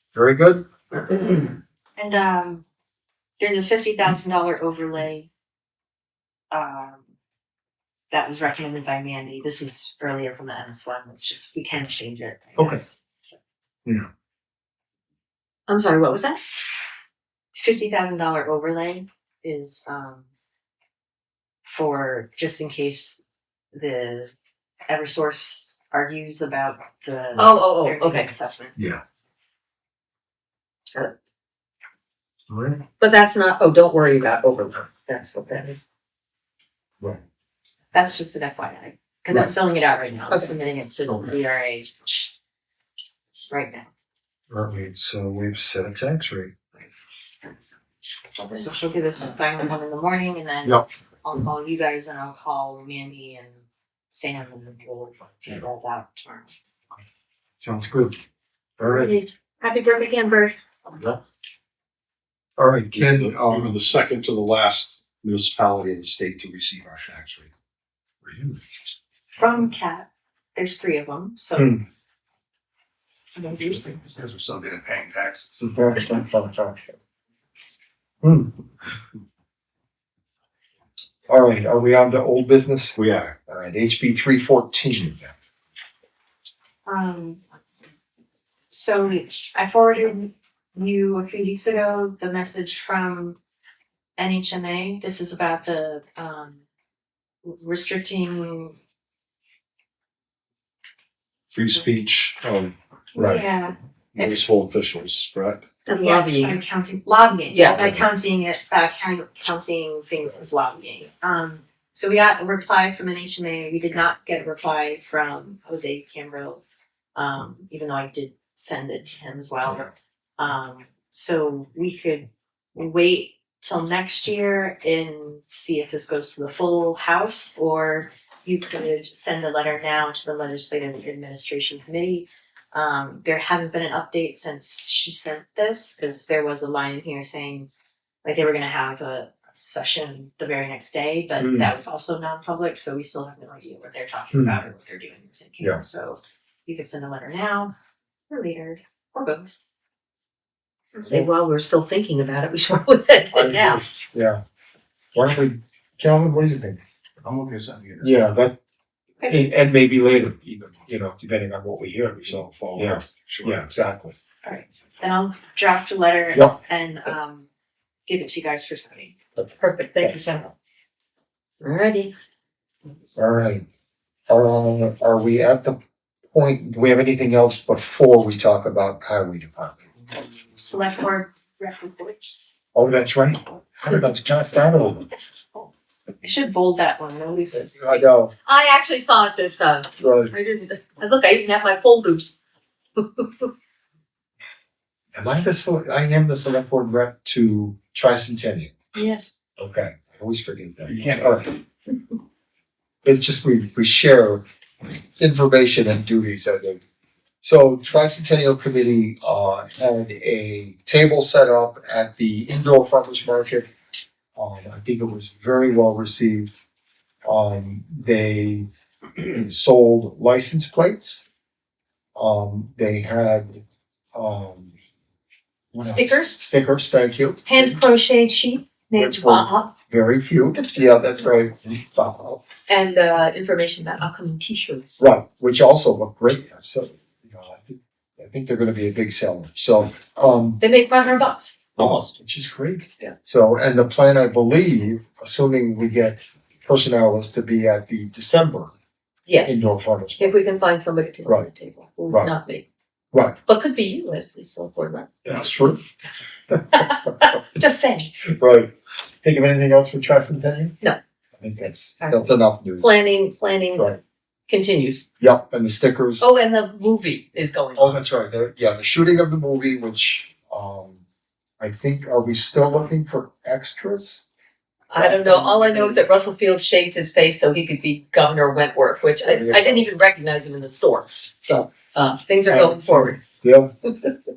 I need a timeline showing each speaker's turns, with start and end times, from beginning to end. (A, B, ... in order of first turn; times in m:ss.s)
0:00.1-0:01.6 A
0:02.0-0:02.6 B
0:03.4-0:05.3 B
0:06.5-0:07.0 B
0:08.1-0:13.0 B
0:12.6-0:12.8 A
0:15.7-0:16.4 C
0:17.5-0:20.3 B
0:21.6-0:23.2 B
0:23.7-0:24.3 B
0:24.8-0:28.7 B
0:27.3-0:28.3 C
0:28.8-0:29.0 A
0:32.5-0:32.8 A
0:33.0-0:35.8 C
0:37.9-0:42.3 B
0:43.5-0:43.9 B
0:44.5-0:46.5 A
0:48.4-0:56.5 B
0:57.6-0:58.2 A
0:58.8-0:59.1 A
0:58.9-1:00.5 C
1:02.6-1:03.8 A
1:02.9-1:07.5 D
1:08.2-1:08.6 A
1:09.4-1:11.8 B
1:11.6-1:11.8 A
1:13.4-1:13.9 B
1:13.9-1:15.5 E
1:15.6-1:16.9 A
1:18.2-1:18.5 A
1:21.3-1:25.3 A
1:23.0-1:23.3 D
1:26.8-1:27.4 B
1:28.7-1:33.4 B
1:34.2-1:36.6 B
1:37.4-1:38.8 B
1:41.5-1:42.7 D
1:43.1-1:43.4 A
1:43.1-1:44.4 B
1:44.1-1:45.6 D
1:45.8-1:46.6 C
1:45.9-1:56.6 B
1:47.5-1:47.8 C
1:57.2-2:17.7 B
2:18.2-2:27.7 B
2:21.4-2:21.7 A
2:24.3-2:24.6 A
2:28.3-2:29.6 B
2:30.9-2:33.8 C
2:33.3-2:34.4 A
2:35.1-2:36.8 A
2:37.2-2:38.0 E
2:37.3-2:38.0 D
2:38.0-2:38.6 A
2:39.3-2:44.2 A
2:42.2-2:43.6 D
2:44.4-2:47.5 B
2:48.1-2:49.1 B
2:49.4-2:50.2 A
2:49.6-2:50.5 C
2:51.6-2:52.1 C
2:53.2-2:53.6 A
2:54.3-2:55.8 A
2:56.3-2:59.8 A
3:00.5-3:02.5 B
3:02.7-3:05.1 A
3:06.2-3:08.1 B
3:07.7-3:08.3 A
3:08.4-3:12.3 C
3:10.0-3:10.3 A
3:13.0-3:13.5 C
3:15.1-3:18.7 A
3:18.9-3:19.3 B
3:19.6-3:21.6 A
3:23.0-3:24.4 A
3:25.2-3:26.8 A
3:27.4-3:33.7 A
3:34.4-3:36.5 A
3:37.2-3:38.7 A
3:39.2-3:41.2 A
3:42.2-3:43.6 A
3:44.1-3:44.7 A
3:45.7-3:47.8 A
3:45.8-3:46.4 C
3:47.5-3:49.7 C
3:48.2-3:49.2 B
3:48.9-3:52.4 A
3:52.7-3:55.0 C
3:55.0-4:00.6 A
4:00.6-4:02.0 C
4:01.8-4:08.7 A
4:09.3-4:12.6 C
4:09.4-4:10.4 A
4:13.4-4:15.5 C
4:15.2-4:15.8 A
4:16.5-4:17.1 A
4:16.7-4:18.1 C
4:18.3-4:20.7 A
4:21.4-4:23.0 A
4:22.0-4:24.0 C
4:24.5-4:25.0 C
4:25.2-4:26.3 A
4:26.2-4:28.0 C
4:27.8-4:31.0 A
4:31.6-4:34.2 A
4:34.9-4:43.2 C
4:34.9-4:36.0 A
4:39.2-4:39.8 A
4:42.4-4:43.7 A